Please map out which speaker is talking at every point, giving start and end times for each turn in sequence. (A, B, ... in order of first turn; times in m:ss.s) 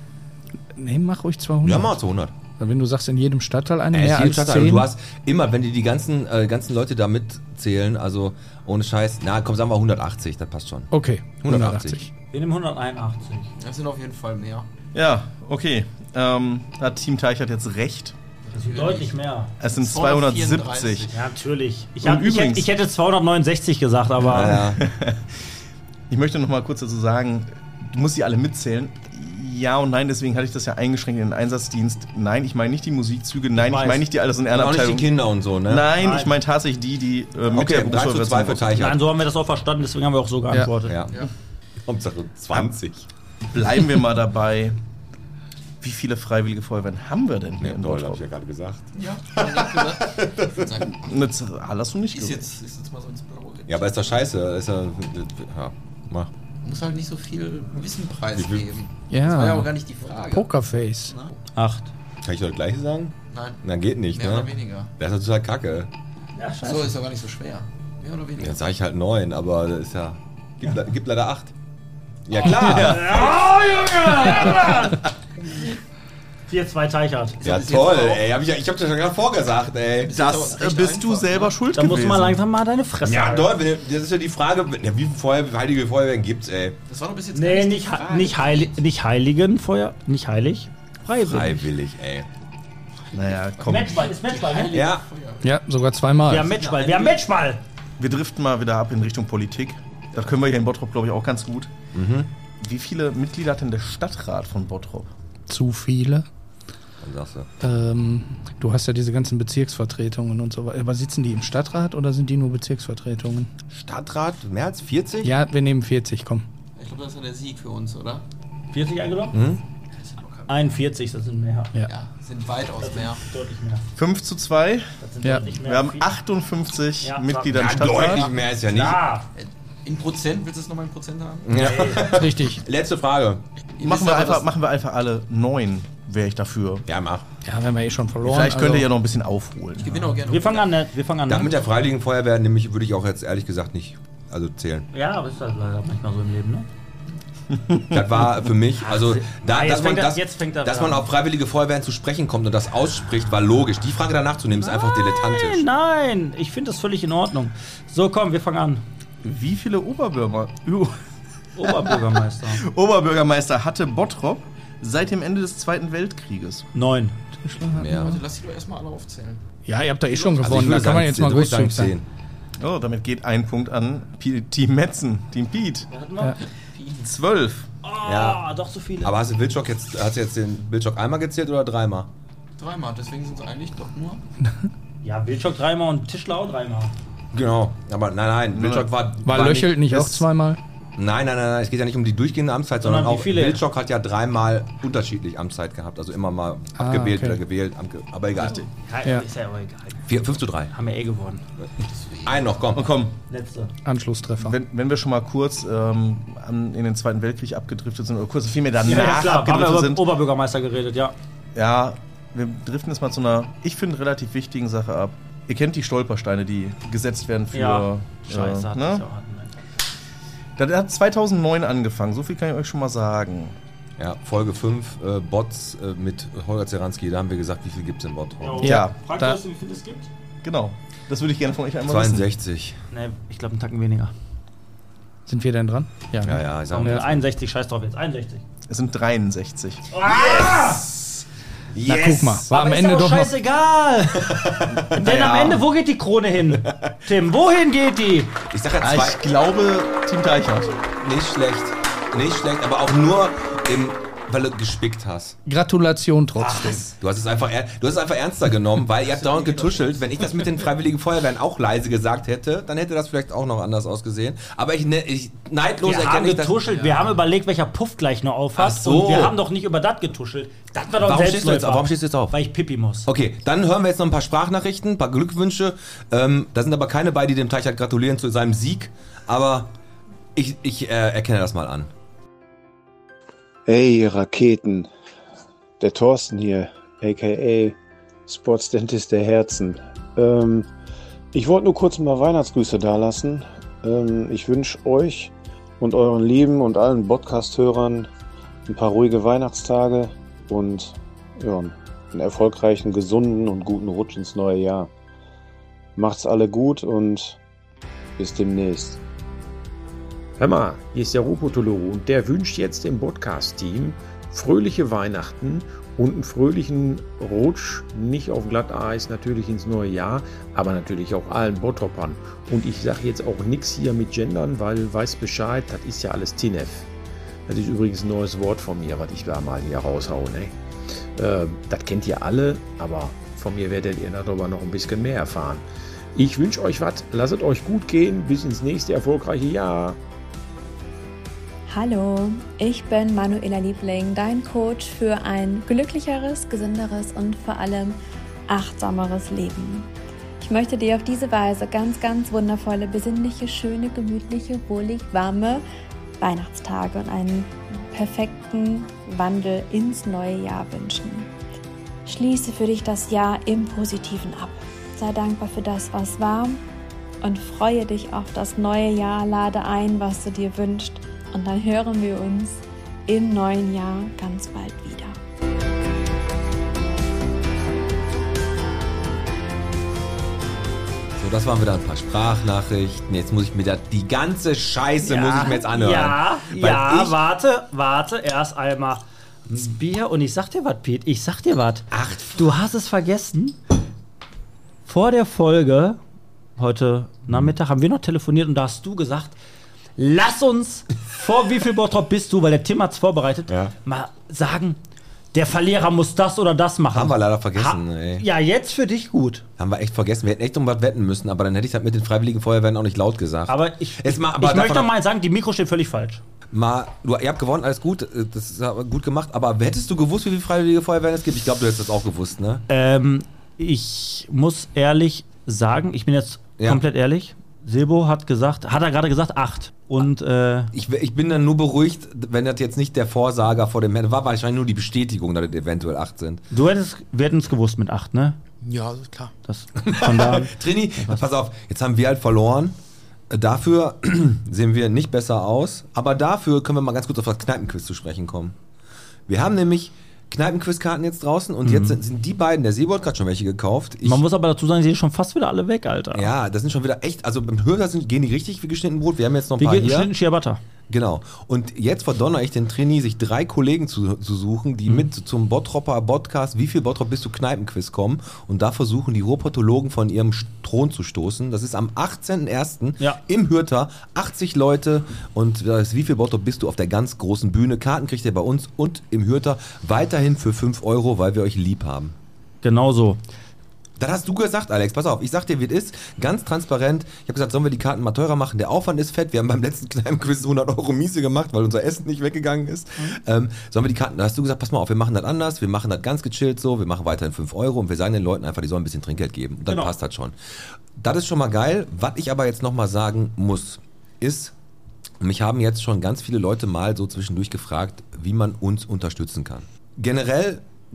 0:00.7-0:02.0 A
0:01.6-0:02.3 B
0:02.6-0:04.9 A
0:03.9-0:12.0 B
0:10.9-0:12.1 A
0:12.3-0:13.5 C
0:13.6-0:14.7 D
0:14.9-0:18.1 E
0:18.5-0:19.1 D
0:18.5-0:19.5 C
0:19.6-0:21.1 E
0:19.7-0:21.1 D
0:21.1-0:24.7 C
0:22.0-0:22.6 E
0:24.2-0:24.8 B
0:24.3-0:25.1 E
0:26.1-0:35.1 E
0:33.5-0:34.1 C
0:34.5-0:35.9 B
0:35.6-0:38.7 E
0:35.9-0:36.4 C
0:37.5-0:39.0 B
0:38.7-0:41.0 C
0:40.8-0:41.3 B
0:41.8-0:43.1 B
0:43.5-0:44.8 E
0:45.8-0:48.2 E
0:47.6-0:50.7 B
0:48.9-0:51.0 D
0:50.9-0:52.5 E
0:52.1-0:54.1 D
0:53.6-0:56.3 B
0:56.6-1:00.5 D
0:58.3-0:58.7 B
0:59.1-1:01.1 A
1:01.1-1:01.3 D
1:01.5-1:01.9 C
1:02.2-1:05.9 B
1:03.3-1:03.6 D
1:04.1-1:04.9 D
1:06.3-1:06.9 C
1:06.6-1:08.6 D
1:08.4-1:11.5 B
1:12.2-1:13.2 B
1:12.6-1:15.0 C
1:12.6-1:13.1 E
1:16.5-1:17.4 C
1:17.4-1:18.2 D
1:17.4-1:20.2 B
1:20.0-1:21.6 D
1:20.1-1:22.4 E
1:21.7-1:23.6 C
1:23.0-1:26.8 B
1:26.9-1:28.7 D
1:27.3-1:31.7 C
1:31.2-1:32.2 B
1:33.1-1:34.0 E
1:33.6-1:34.9 C
1:33.8-1:35.5 D
1:34.7-1:35.0 B
1:35.4-1:36.5 A
1:36.3-1:37.6 C
1:36.5-1:37.2 D
1:38.0-1:41.7 E
1:41.9-1:42.3 B
1:42.6-1:45.1 E
1:45.5-1:46.2 A
1:47.0-1:47.5 B
1:47.6-1:53.5 A
1:53.7-1:55.3 B
1:55.2-1:56.4 A
1:56.8-1:58.2 D
1:58.7-1:59.4 C
1:59.3-1:59.6 B
2:00.0-2:00.7 D
2:00.5-2:01.7 C
2:01.9-2:03.2 D
2:02.8-2:03.8 C
2:04.0-2:04.8 E
2:05.0-2:06.2 C
2:05.2-2:05.5 A
2:05.6-2:08.1 E
2:07.0-2:08.2 C
2:07.5-2:09.0 B
2:08.7-2:09.3 C
2:09.4-2:11.5 D
2:11.4-2:13.4 B
2:11.5-2:12.1 C
2:12.1-2:12.6 A
2:13.8-2:14.5 D
2:13.8-2:16.8 E
2:16.8-2:17.2 B
2:17.4-2:18.9 A
2:18.2-2:20.2 E
2:19.8-2:20.7 D
2:20.2-2:21.6 C
2:21.3-2:24.8 B
2:24.9-2:26.7 C
2:27.9-2:35.6 B
2:28.8-2:31.1 C
2:34.6-2:38.8 C
2:39.2-2:40.9 E
2:41.5-2:42.6 C
2:42.6-2:46.6 E
2:46.7-2:47.2 C
2:47.4-2:48.2 A
2:47.7-2:48.2 B
2:48.0-2:49.4 D
2:49.6-2:51.9 A
2:50.3-2:52.0 B
2:52.6-2:55.8 E
2:55.9-2:56.4 C
2:56.7-2:57.2 D
2:57.0-2:57.6 E
2:57.8-2:59.1 C
2:58.0-2:58.4 B
2:59.0-3:02.1 B
3:02.6-3:04.2 D
3:05.0-3:06.9 C
3:07.3-3:10.2 B
3:08.5-3:08.9 E
3:09.2-3:10.6 A
3:11.0-3:18.6 B
3:12.8-3:13.6 C
3:16.8-3:17.4 A
3:18.5-3:20.0 C
3:20.1-3:20.7 B
3:20.7-3:21.4 C
3:22.2-3:22.9 B
3:22.8-3:23.1 E
3:23.3-3:23.7 C
3:23.8-3:24.6 A
3:24.4-3:30.0 E
3:28.8-3:31.1 C
3:31.6-3:39.0 E
3:37.5-3:39.5 C
3:40.6-3:43.5 E
3:44.0-3:48.7 B
3:48.4-3:50.1 C
3:48.6-3:49.4 A
3:50.4-3:52.3 E
3:51.8-3:52.8 B
3:52.9-3:54.1 C
3:55.3-3:57.0 A
3:56.2-3:57.2 B
3:56.7-3:58.4 C
3:58.7-3:59.8 E
3:59.9-4:01.0 C
4:01.7-4:02.1 B
4:01.8-4:03.3 A
4:01.8-4:08.3 C
4:04.3-4:05.5 B
4:05.0-4:05.5 E
4:08.5-4:09.3 B
4:08.8-4:10.7 E
4:11.0-4:15.4 B
4:15.4-4:16.9 A
4:16.4-4:16.9 C
4:17.0-4:26.8 B
4:19.0-4:20.5 D
4:25.8-4:33.1 C
4:28.6-4:29.4 B
4:31.0-4:32.4 B
4:33.0-4:39.7 B
4:40.4-4:41.9 B
4:43.7-4:44.9 F
4:45.8-4:47.8 F
4:48.3-4:50.7 F
4:51.3-4:58.1 F
4:58.7-5:04.9 F
5:06.0-5:07.4 F
5:08.2-5:09.0 F
5:10.4-5:26.8 G
5:27.5-5:30.5 G
5:31.2-5:35.6 G
5:36.2-5:40.0 G
5:41.7-5:55.6 H
5:56.2-6:01.3 H
6:02.0-6:06.6 H
6:07.2-6:15.2 H
6:21.2-6:27.2 B
6:25.0-6:33.6 C
6:31.9-6:32.3 B
6:34.8-6:36.0 C
6:36.6-6:39.4 C
6:40.0-6:44.8 C
6:43.5-6:43.7 B
6:45.3-6:49.4 C
6:46.9-6:48.2 B
6:49.6-6:54.9 B
6:53.5-6:56.2 C
6:56.5-7:02.6 B
7:02.7-7:10.7 C
7:10.7-7:16.4 B
7:16.5-7:18.4 C
7:18.6-7:19.3 D
7:19.4-7:21.2 C
7:19.8-7:22.7 B
7:23.3-7:28.5 B
7:29.3-7:34.2 B
7:31.6-7:32.0 C
7:34.0-7:36.3 C
7:36.1-7:40.1 B
7:39.6-7:40.6 C
7:40.9-8:02.1 B
8:02.6-8:03.2 C
8:04.0-8:20.3 B
8:21.0-8:24.5 B
8:25.2-8:30.6 B